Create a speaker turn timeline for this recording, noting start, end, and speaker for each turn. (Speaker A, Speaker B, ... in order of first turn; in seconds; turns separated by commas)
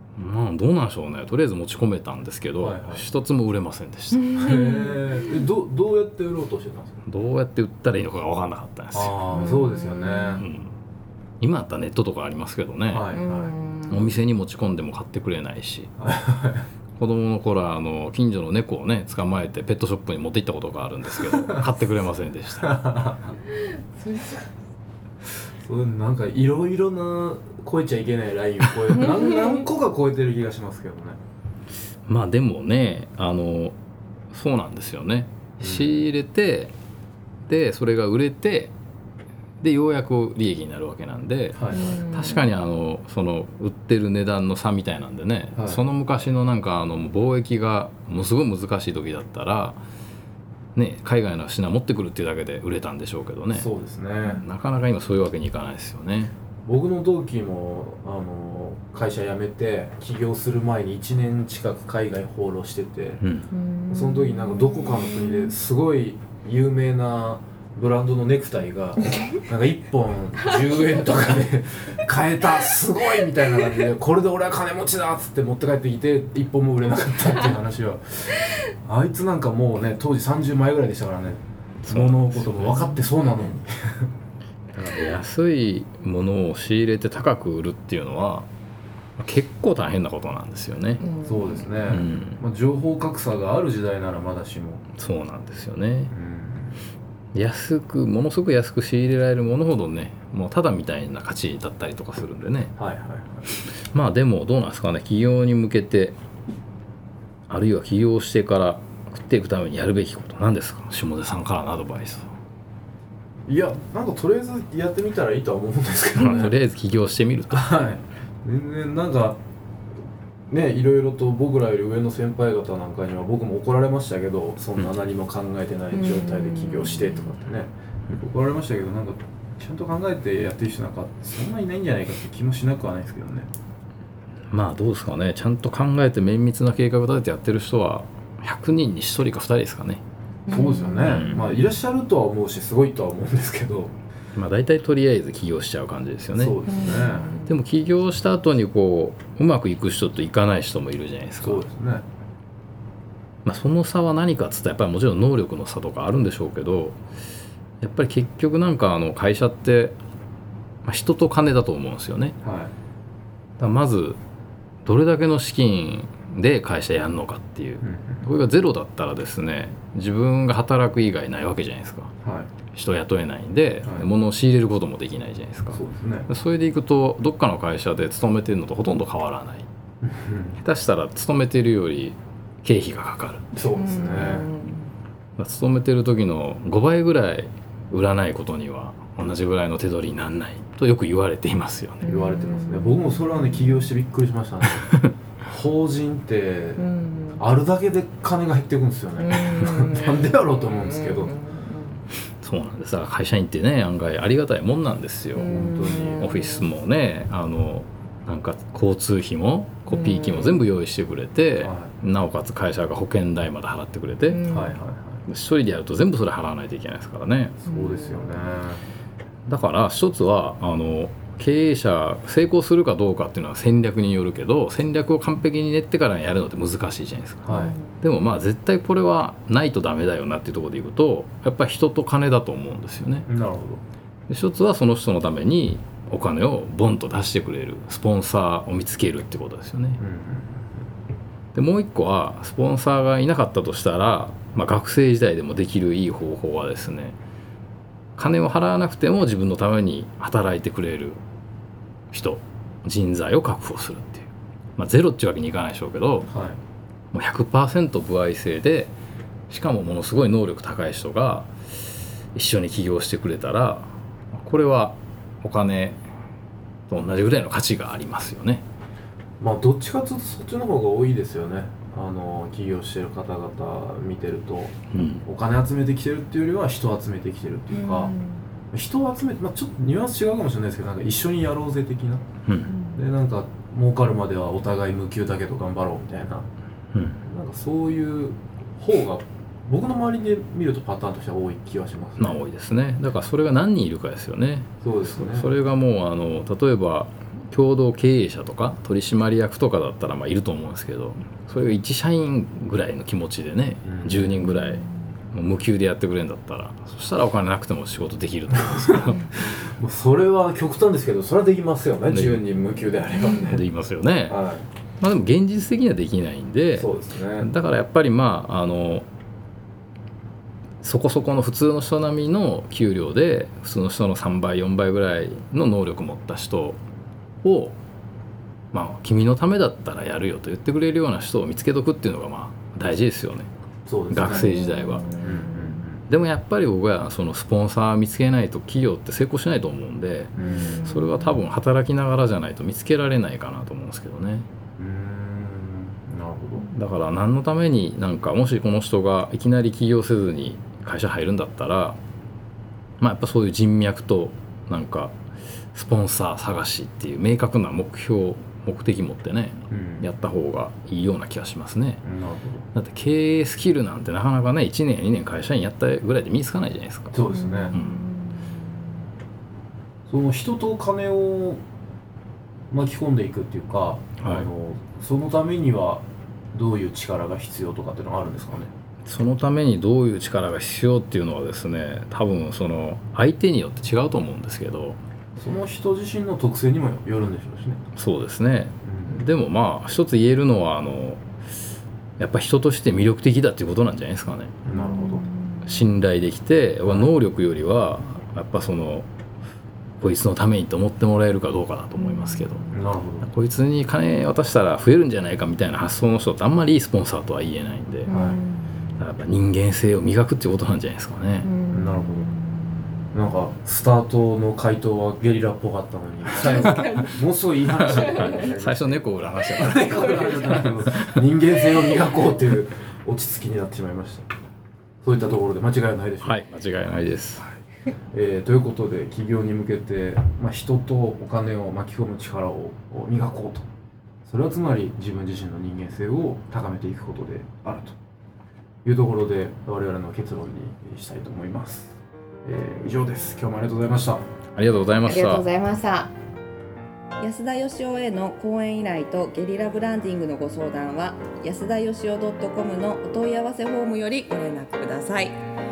Speaker A: 0.2-4.4, Speaker B: 2.6-3.0, Speaker C: 4.3-5.2, Speaker B: 4.3-7.0, Speaker A: 7.0-9.5, Speaker B: 8.9-10.5, Speaker C: 9.3-10.4, Speaker A: 10.4-10.8, Speaker A: 11.4-13.1, Speaker B: 12.9-13.5, Speaker C: 13.1-14.2, Speaker A: 13.9-15.9, Speaker B: 16.0-16.7, Speaker A: 17.0-23.1, Speaker B: 21.4-21.6, Speaker B: 22.6-23.2, Speaker C: 23.9-24.5, Speaker B: 25.6-31.2, Speaker A: 32.1-33.8, Speaker A: 34.3-36.7, Speaker B: 35.6-36.0, Speaker A: 37.5-38.7, Speaker A: 39.6-49.8, Speaker B: 41.5-42.0, Speaker C: 41.7-42.5, Speaker B: 45.5-45.8, Speaker A: 50.8-53.7, Speaker B: 53.5-54.4, Speaker A: 54.3-56.3, Speaker B: 56.6-63.2, Speaker A: 63.2-63.5, Speaker C: 63.5-65.5, Speaker B: 63.9-84.1, Speaker A: 81.9-83.0, Speaker A: 84.7-88.5, Speaker A: 89.2-91.0, Speaker C: 91.0-91.7, Speaker B: 91.2-94.8, Speaker A: 91.8-92.4, Speaker A: 95.0-96.1, Speaker B: 96.1-96.8, Speaker A: 97.3-102.7, Speaker B: 102.8-103.5, Speaker A: 103.7-106.2, Speaker A: 107.5-112.3, Speaker B: 113.5-116.6, Speaker A: 116.2-117.8, Speaker B: 117.5-119.4, Speaker B: 120.5-133.5, Speaker C: 125.9-127.3, Speaker A: 134.5-140.0, Speaker C: 140.5-141.3, Speaker B: 140.5-143.9, Speaker A: 141.0-141.6, Speaker A: 144.3-146.6, Speaker B: 146.3-147.3, Speaker C: 146.7-147.6, Speaker A: 147.5-151.7, Speaker B: 151.4-152.1, Speaker A: 153.4-157.0, Speaker A: 157.8-160.0, Speaker A: 160.8-162.4, Speaker B: 162.4-162.7, Speaker A: 163.6-164.2, Speaker A: 164.8-172.1, Speaker B: 167.8-168.3, Speaker B: 172.2-172.5, Speaker A: 172.7-179.7, Speaker B: 173.8-174.1, Speaker B: 175.7-176.3, Speaker B: 180.0-180.6, Speaker A: 180.6-183.6, Speaker B: 183.5-184.5, Speaker C: 183.8-184.9, Speaker A: 185.4-192.2, Speaker C: 192.0-193.6, Speaker B: 192.1-196.8, Speaker C: 196.8-197.4, Speaker B: 197.4-201.3, Speaker C: 199.2-202.0, Speaker A: 202.4-214.5, Speaker C: 205.3-206.7, Speaker B: 205.4-206.3, Speaker C: 209.9-210.6, Speaker B: 211.6-211.9, Speaker C: 214.3-214.8, Speaker B: 214.5-215.2, Speaker A: 215.3-217.6, Speaker B: 217.6-218.8, Speaker C: 217.7-218.3, Speaker A: 219.5-233.3, Speaker B: 227.5-227.8, Speaker C: 227.5-228.0, Speaker B: 233.3-233.8, Speaker A: 234.3-240.0, Speaker B: 240.0-240.9, Speaker A: 241.6-247.2, Speaker A: 248.2-251.2, Speaker A: 252.1-256.3, Speaker B: 256.3-256.6, Speaker A: 257.1-258.9, Speaker A: 259.5-261.5, Speaker A: 262.4-266.0, Speaker A: 266.9-268.6, Speaker B: 269.4-278.1, Speaker A: 274.9-275.2, Speaker C: 277.7-278.4, Speaker B: 278.7-282.3, Speaker C: 282.7-283.0, Speaker B: 283.0-286.5, Speaker A: 286.9-287.2, Speaker B: 287.2-292.4, Speaker A: 292.2-309.5, Speaker B: 294.8-295.5, Speaker B: 303.8-304.4, Speaker B: 309.4-313.6, Speaker A: 312.1-312.5, Speaker A: 313.3-314.4, Speaker B: 314.3-314.7, Speaker A: 315.0-319.1, Speaker B: 316.8-317.5, Speaker A: 320.8-326.8, Speaker A: 327.4-327.8, Speaker A: 328.7-333.5, Speaker B: 333.9-334.6, Speaker A: 334.1-335.1, Speaker C: 334.3-335.8, Speaker B: 335.2-336.0, Speaker A: 336.1-344.5, Speaker B: 340.4-340.9, Speaker C: 340.4-341.3, Speaker B: 344.8-346.7, Speaker A: 346.7-352.0, Speaker A: 353.0-355.1, Speaker A: 355.7-362.0, Speaker B: 359.7-360.1, Speaker B: 362.0-362.7, Speaker A: 362.8-367.2, Speaker B: 367.1-367.8, Speaker C: 367.3-368.5, Speaker A: 367.7-368.1, Speaker B: 370.1-371.6, Speaker B: 372.7-378.7, Speaker A: 374.2-374.5, Speaker A: 379.1-385.0, Speaker B: 385.4-387.8, Speaker A: 388.0-391.2, Speaker B: 388.9-389.3, Speaker A: 392.2-394.6, Speaker B: 394.6-395.3, Speaker C: 394.8-395.8, Speaker A: 395.6-399.1, Speaker B: 396.9-397.1, Speaker A: 400.0-402.7, Speaker C: 402.0-402.6, Speaker B: 402.7-403.3, Speaker A: 403.2-408.1, Speaker C: 408.1-408.8, Speaker B: 408.1-408.4, Speaker A: 409.0-411.5, Speaker C: 411.4-412.4, Speaker B: 411.7-412.4, Speaker B: 413.1-424.3, Speaker C: 416.3-417.2, Speaker A: 416.6-416.9, Speaker A: 417.8-421.2, Speaker C: 417.9-418.4, Speaker C: 419.9-420.6, Speaker B: 425.0-426.4, Speaker A: 426.2-427.5, Speaker B: 428.1-433.7, Speaker B: 434.3-438.0, Speaker B: 438.9-444.2, Speaker A: 444.6-445.4, Speaker C: 445.1-446.1, Speaker C: 447.2-455.4